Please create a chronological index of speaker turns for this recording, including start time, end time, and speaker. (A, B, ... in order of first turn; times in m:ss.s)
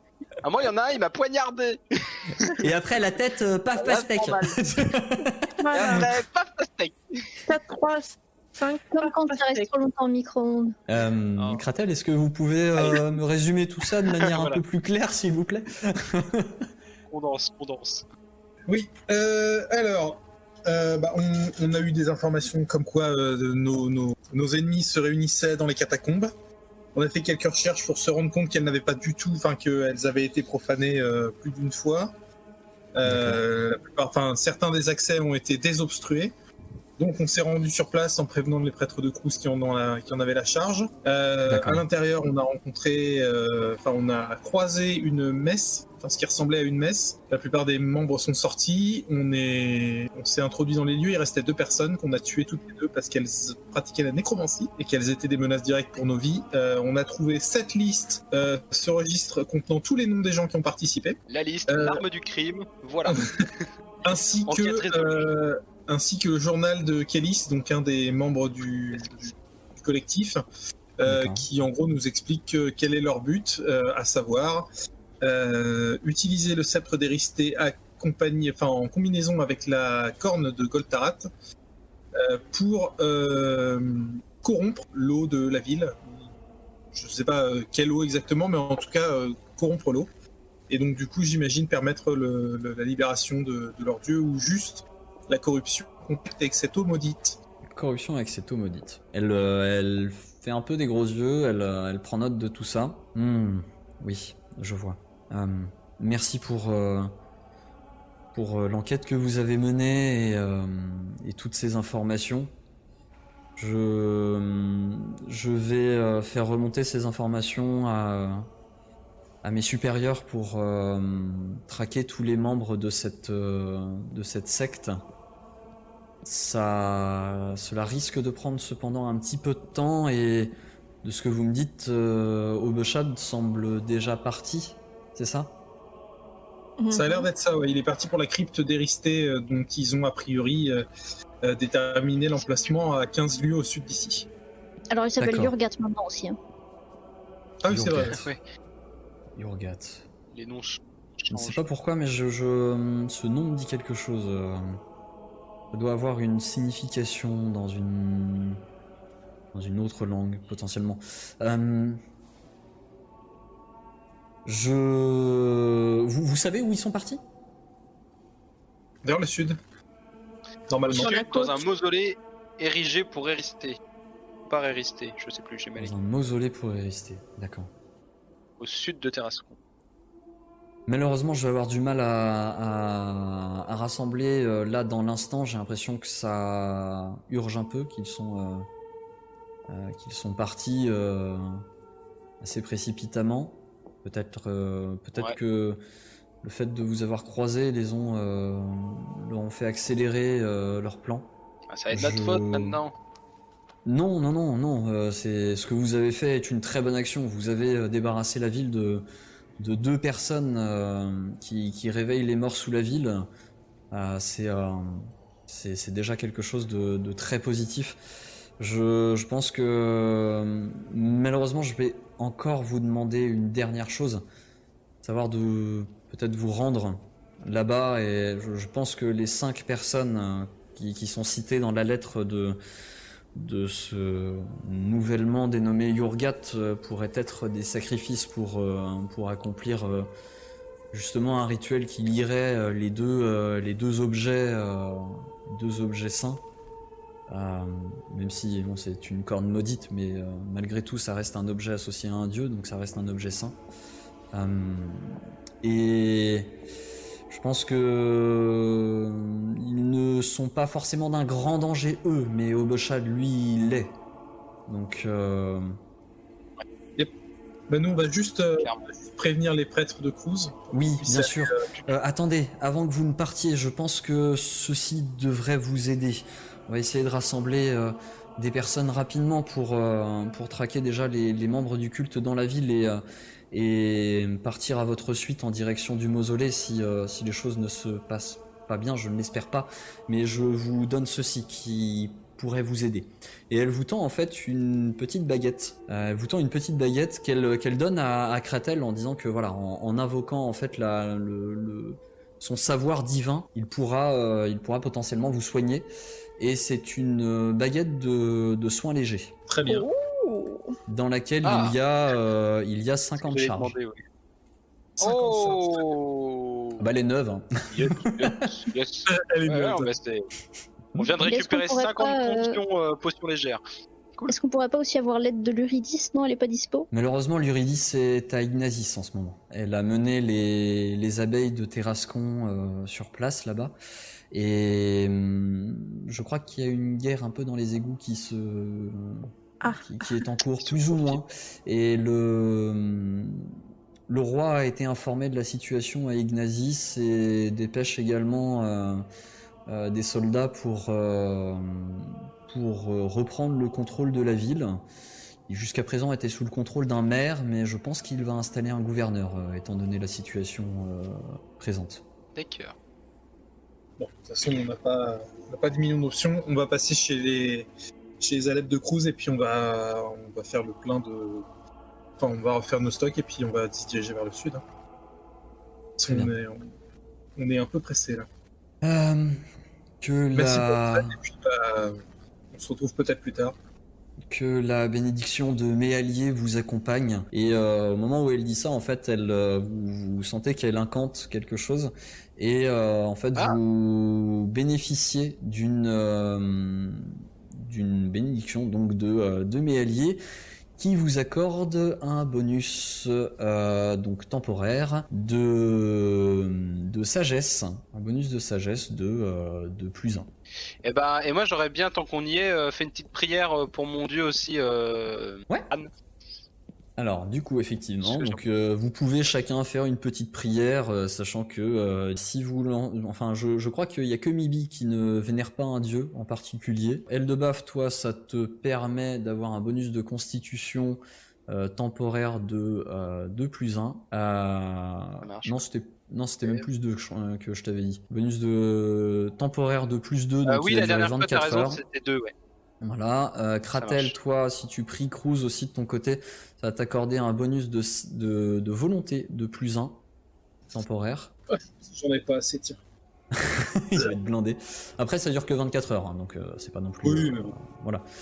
0:00.4-0:02.6 A
0:02.6-0:06.1 B
0:03.8-0:04.6 A
0:05.5-0:06.1 C
0:05.7-0:07.3 A
0:07.4-0:09.7 C
0:09.0-0:10.8 D
0:10.9-0:16.6 B
0:11.4-0:11.6 A
0:12.8-0:13.0 A
0:14.2-0:14.6 A
0:17.1-0:18.0 A
0:18.7-0:26.3 E
0:26.9-0:32.1 E
0:33.0-0:36.3 E
0:33.0-0:33.4 B
0:37.0-1:02.0 E
0:41.4-0:41.8 B
1:01.3-1:03.7 A
1:03.0-1:03.5 E
1:04.0-1:10.4 E
1:04.5-1:05.3 A
1:08.9-1:09.3 A
1:11.0-1:14.7 E
1:11.0-1:11.4 B
1:15.2-1:21.3 E
1:22.1-1:26.2 E
1:26.9-1:30.1 E
1:30.7-1:37.4 E
1:37.7-1:47.1 B
1:48.3-1:52.5 B
1:53.6-1:58.5 B
1:59.4-2:05.0 B
2:06.2-2:10.5 B
2:11.0-2:15.5 B
2:16.8-2:17.2 C
2:16.9-2:20.8 E
2:21.4-2:24.3 E
2:24.9-2:26.4 D
2:25.2-2:25.5 B
2:27.6-2:28.3 E
2:27.7-2:28.2 B
2:28.1-2:28.4 A
2:29.4-2:30.0 B
2:30.3-2:31.6 A
2:31.3-2:34.8 B
2:35.7-2:38.6 B
2:39.5-2:42.0 B
2:44.4-2:47.2 B
2:49.0-2:49.6 E
2:50.7-2:51.1 E
2:50.9-2:53.8 A
2:50.9-2:51.6 C
2:54.5-2:55.9 A
2:55.8-2:57.7 B
2:58.6-2:59.6 A
3:00.9-3:08.7 B
3:09.7-3:11.6 B
3:12.4-3:15.8 B
3:16.4-3:21.3 B
3:21.7-3:22.9 A
3:21.9-3:22.8 B
3:23.8-3:29.0 B
3:29.6-3:33.3 B
3:33.9-3:38.0 B
3:38.6-3:44.2 B
3:45.0-3:52.6 B
3:53.3-4:00.1 B
4:00.9-4:06.4 B
4:07.3-4:13.6 B
4:14.3-4:16.5 B
4:17.3-4:24.0 B
4:24.7-4:25.8 B
4:27.7-4:31.6 E
4:28.6-4:28.9 A
4:30.7-5:09.3 B
5:09.5-5:09.9 E
5:09.6-5:10.8 C
5:10.9-5:13.7 B
5:11.4-5:11.7 A
5:13.2-5:14.0 A
5:15.0-5:15.9 E
5:15.0-5:16.8 A
5:16.8-5:18.2 B
5:17.7-5:20.2 A
5:19.1-5:19.9 E
5:21.0-5:23.6 A
5:21.2-5:22.6 D
5:24.3-5:26.9 D
5:26.9-5:33.8 B
5:34.3-5:43.5 B
5:39.6-5:40.2 C
5:40.6-5:41.3 A
5:44.1-5:49.0 B
5:49.7-5:54.8 B
5:55.5-6:02.0 B
6:02.3-6:02.7 A
6:04.0-6:07.7 E
6:08.2-6:11.5 E
6:12.2-6:14.6 E
6:16.0-6:16.7 E
6:16.1-6:16.3 B
6:17.4-6:18.3 E
6:18.8-6:19.4 B
6:20.0-6:21.1 B
6:20.3-6:23.5 E
6:24.3-6:40.2 B
6:40.8-6:50.3 B
6:50.8-6:55.9 A
6:57.0-7:21.8 B
6:58.0-6:58.4 A
7:15.2-7:15.6 A
7:20.5-7:22.3 A
7:22.8-7:30.0 B
7:23.8-7:24.1 A
7:30.7-7:31.3 B
7:31.5-7:32.8 E
7:33.4-7:38.0 B
7:37.0-7:37.5 E